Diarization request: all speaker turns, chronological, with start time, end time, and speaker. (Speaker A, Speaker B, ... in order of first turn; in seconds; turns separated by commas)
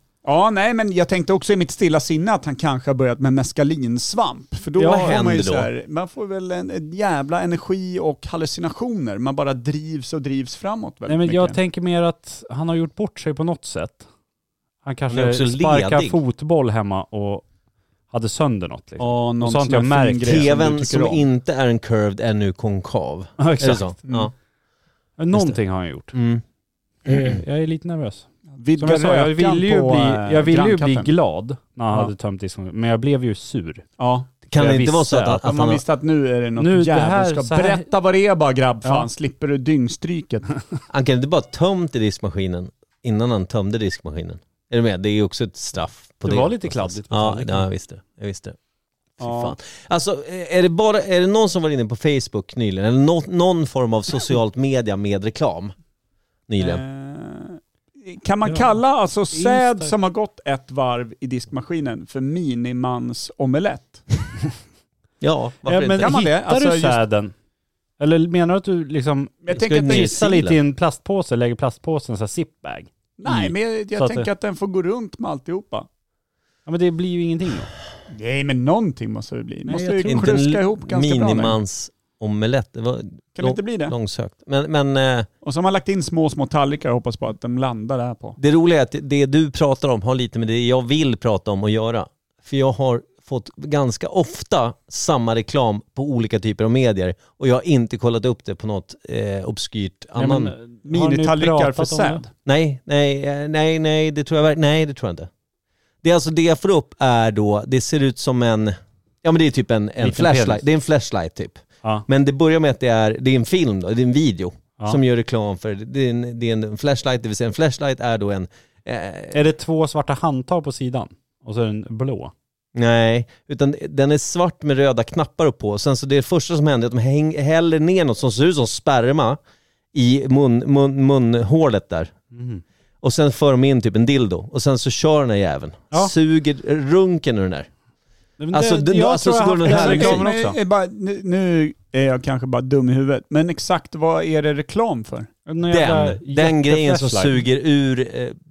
Speaker A: 0.2-11.6, Speaker B: 4.8-5.2, Speaker C: 4.8-5.7, Speaker B: 11.1-14.1, Speaker B: 14.8-17.5, Speaker C: 15.1-16.2, Speaker B: 18.1-20.4, Speaker A: 19.0-21.3, Speaker C: 20.2-24.3, Speaker B: 23.4-23.9, Speaker B: 25.2-26.2, Speaker C: 25.3-25.6, Speaker C: 26.1-26.4, Speaker B: 27.1-33.9, Speaker A: 28.6-31.1, Speaker A: 34.0-34.3, Speaker C: 34.5-35.8, Speaker B: 34.5-35.5, Speaker A: 35.4-40.5, Speaker B: 36.6-37.9, Speaker C: 40.9-48.6, Speaker B: 46.2-47.6, Speaker C: 49.2-55.7, Speaker A: 49.2-49.6, Speaker C: 56.5-56.8, Speaker A: 56.6-64.1, Speaker B: 59.3-59.9, Speaker C: 65.2-66.1, Speaker B: 65.7-67.3, Speaker A: 65.8-67.0, Speaker B: 68.0-74.3, Speaker A: 69.5-70.3, Speaker C: 69.5-70.6, Speaker A: 73.2-75.9, Speaker B: 76.7-77.7, Speaker A: 78.1-81.6, Speaker B: 79.7-80.2, Speaker C: 80.1-85.3, Speaker A: 83.4-84.0, Speaker A: 85.4-88.4, Speaker C: 88.4-100.5, Speaker B: 100.2-102.2, Speaker A: 100.9-102.3, Speaker C: 102.5-105.3, Speaker C: 106.0-119.4, Speaker B: 110.0-110.7, Speaker B: 119.3-122.3, Speaker C: 122.8-129.4, Speaker C: 129.9-132.2, Speaker B: 132.3-132.6, Speaker C: 133.0-137.7, Speaker B: 138.4-140.6, Speaker C: 138.5-140.3, Speaker A: 139.7-145.3, Speaker B: 145.5-147.4, Speaker C: 145.7-148.4